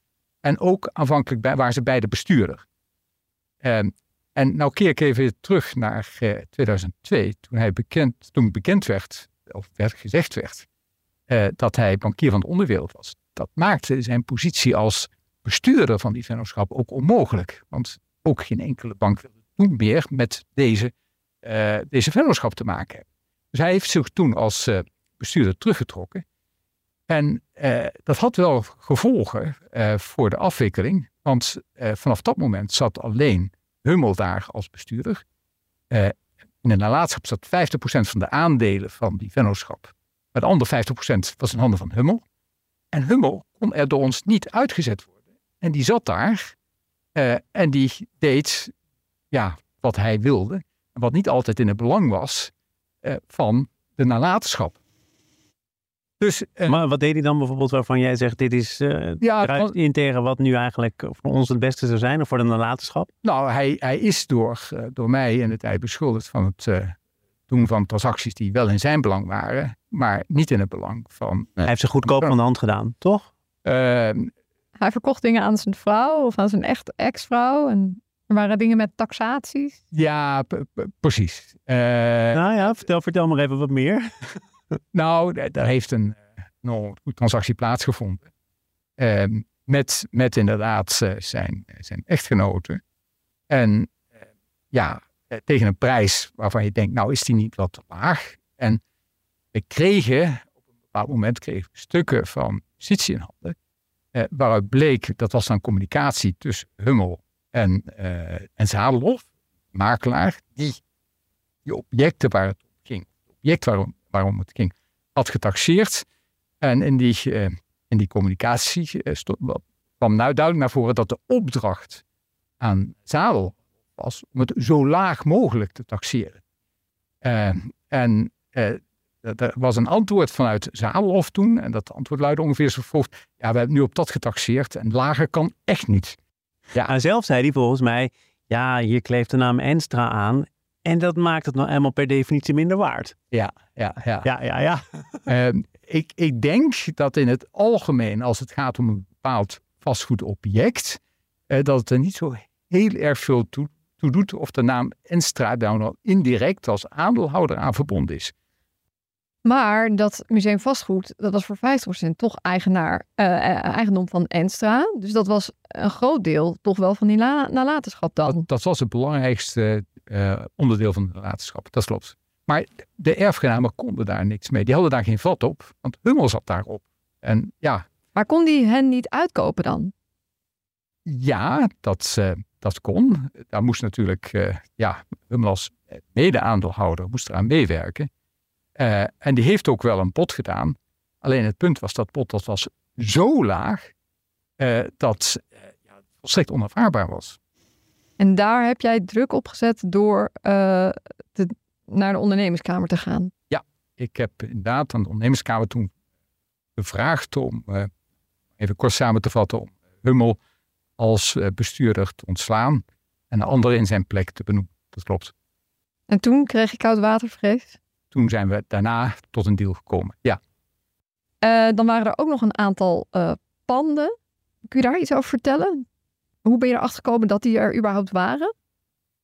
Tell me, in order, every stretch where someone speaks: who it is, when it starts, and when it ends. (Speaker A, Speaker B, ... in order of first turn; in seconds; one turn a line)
Speaker A: 0.4-2.6
Speaker A: 3.6-10.7
Speaker A: 11.3-20.9
Speaker A: 21.4-26.2
Speaker A: 27.1-35.2
Speaker A: 35.9-42.2
Speaker A: 42.9-46.5
Speaker A: 47.1-48.7
Speaker A: 49.3-52.5
Speaker A: 53.0-54.8
Speaker A: 56.2-56.8
Speaker B: 56.7-63.1
Speaker A: 59.2-59.7
Speaker A: 63.2-67.0
Speaker A: 67.5-72.3
Speaker B: 71.7-73.3
Speaker A: 73.6-74.3
Speaker C: 74.8-79.8
Speaker A: 79.9-82.4
Speaker B: 82.3-84.1
Speaker A: 84.9-88.3
Speaker A: 89.0-92.8
Speaker A: 93.5-94.0
Speaker A: 94.7-98.8
Speaker A: 99.5-103.6
Speaker A: 104.1-110.8
Speaker A: 111.7-116.1
Speaker A: 116.6-122.0
Speaker A: 122.6-126.4
Speaker A: 127.2-136.2
Speaker B: 136.9-143.2
Speaker A: 143.3-144.3
Speaker B: 144.2-144.9
Speaker A: 145.3-158.3
Speaker C: 159.4-168.4
Speaker A: 168.3-177.9
Speaker C: 178.2-179.9
Speaker A: 181.1-188.1
Speaker A: 188.8-193.9
Speaker A: 194.6-197.4
Speaker C: 198.2-203.3
Speaker A: 203.5-205.9
Speaker A: 206.8-207.9
Speaker A: 208.6-210.4
Speaker A: 211.0-215.3
Speaker C: 216.1-217.8
Speaker A: 218.1-220.4
Speaker C: 221.4-224.1
Speaker C: 224.7-225.8
Speaker C: 226.4-228.5